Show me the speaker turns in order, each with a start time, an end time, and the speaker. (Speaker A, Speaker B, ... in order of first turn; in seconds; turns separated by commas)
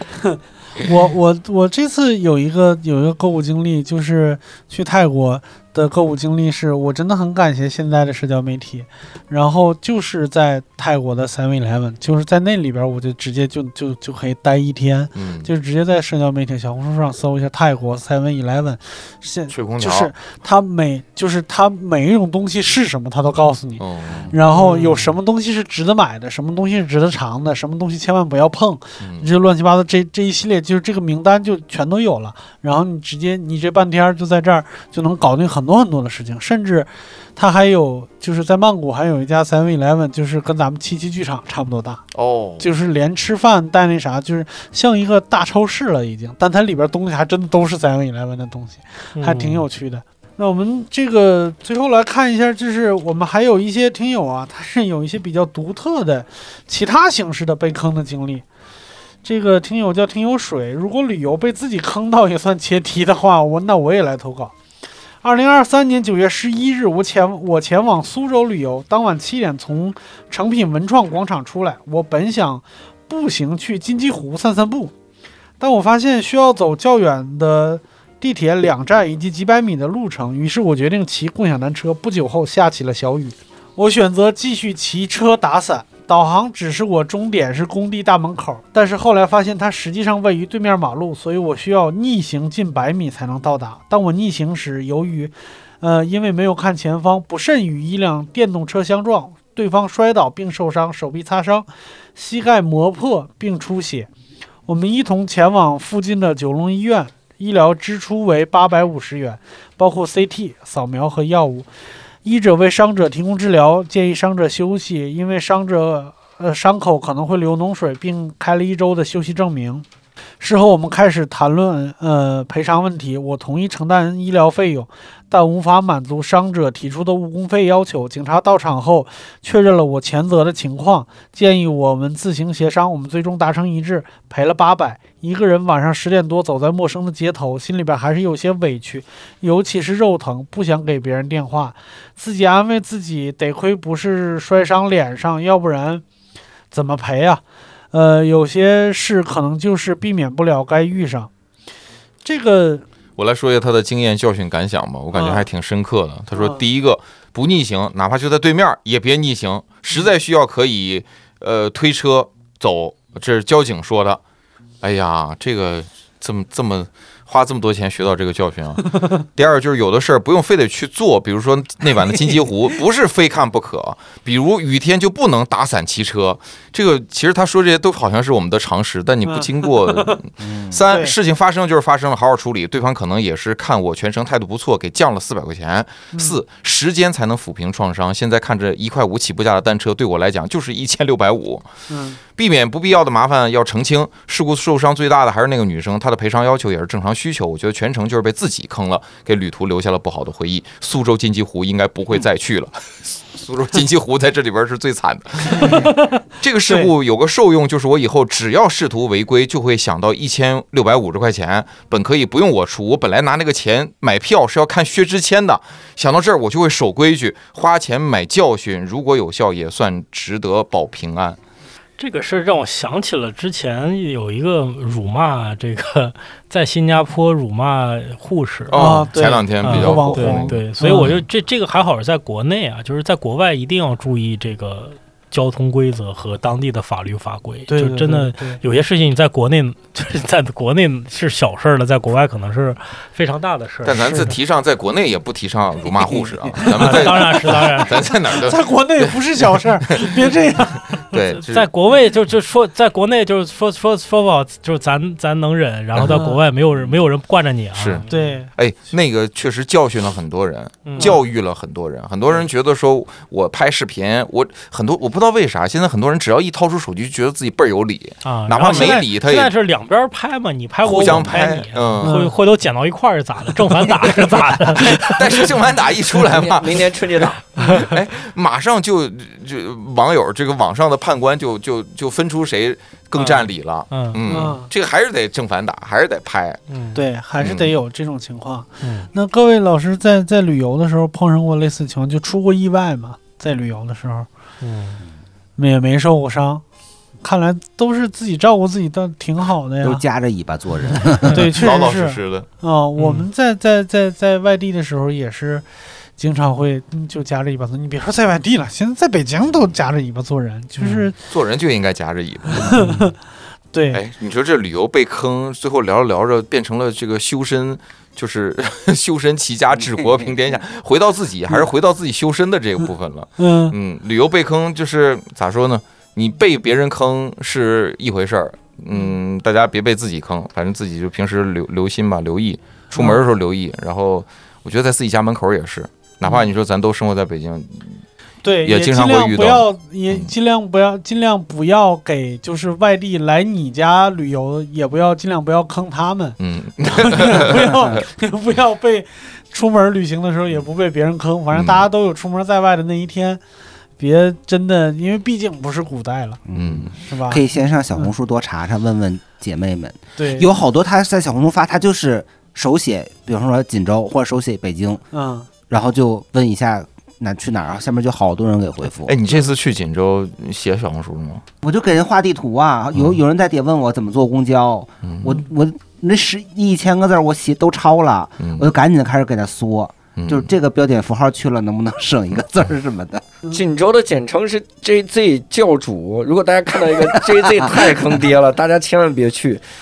Speaker A: 0.3-42.0, Speaker B: 15.1-15.5, Speaker B: 19.5-20.1, Speaker B: 23.8-24.4, Speaker C: 24.5-25.2, Speaker B: 29.0-29.3, Speaker B: 42.1-42.7, Speaker A: 42.6-58.5, Speaker C: 49.2-49.7, Speaker A: 59.2-64.5, Speaker A: 65.2-74.9, Speaker A: 75.6-104.1, Speaker A: 104.7-111.7, Speaker A: 112.2-119.9, Speaker A: 120.4-146.0, Speaker A: 146.7-151.3, Speaker A: 152.2-152.8, Speaker B: 153.2-164.2, Speaker A: 155.1-155.5, Speaker A: 156.3-156.6, Speaker B: 164.8-191.7, Speaker A: 179.2-180.2, Speaker D: 180.4-180.8, Speaker A: 180.9-181.2, Speaker A: 186.1-186.4, Speaker A: 191.9-192.2, Speaker B: 192.3-221.4, Speaker A: 205.5-206.9, Speaker C: 222.0-228.8, Speaker B: 228.7-231.2, Speaker A: 228.7-231.2, Speaker C: 229.6-244.3, Speaker A: 237.7-238.6, Speaker B: 243.8-251.7, Speaker A: 245.9-247.6, Speaker C: 246.7-248.1, Speaker A: 248.2-251.0, Speaker C: 251.4-258.3, Speaker B: 255.9-256.2, Speaker A: 256.1-256.4, Speaker B: 257.8-269.5, Speaker A: 258.1-258.5, Speaker C: 260.9-261.2, Speaker C: 268.2-275.4, Speaker A: 268.7-269.1, Speaker B: 270.8-272.2, Speaker A: 272.0-272.4, Speaker B: 274.7-286.6, Speaker E: 276.2-277.4, Speaker C: 283.2-284.2, Speaker A: 284.3-284.7, Speaker C: 286.7-287.0, Speaker A: 286.9-294.3, Speaker B: 287.4-287.7, Speaker C: 288.8-289.1, Speaker C: 294.6-295.0, Speaker A: 295.6-296.6, Speaker A: 297.2-300.0, Speaker D: 299.8-301.5, Speaker A: 301.3-305.7, Speaker B: 301.6-302.5, Speaker C: 303.0-303.3, Speaker A: 306.2-311.2, Speaker C: 310.8-311.1, Speaker B: 311.3-312.8, Speaker A: 312.5-313.2, Speaker A: 313.7-314.0, Speaker B: 313.9-338.0, Speaker D: 319.7-320.3, Speaker A: 323.4-323.8, Speaker A: 332.9-333.2, Speaker A: 338.4-353.4, Speaker B: 338.6-340.3, Speaker B: 346.4-348.0, Speaker B: 351.5-351.9, Speaker A: 354.0-356.4, Speaker D: 356.5-365.0, Speaker B: 356.6-357.0, Speaker A: 357.0-357.4, Speaker A: 360.2-360.5, Speaker A: 365.1-365.5, Speaker D: 365.7-369.2, Speaker B: 369.1-371.4, Speaker D: 371.6-383.2, Speaker B: 372.9-373.2, Speaker B: 375.0-375.4, Speaker B: 380.2-380.5, Speaker E: 383.5-389.6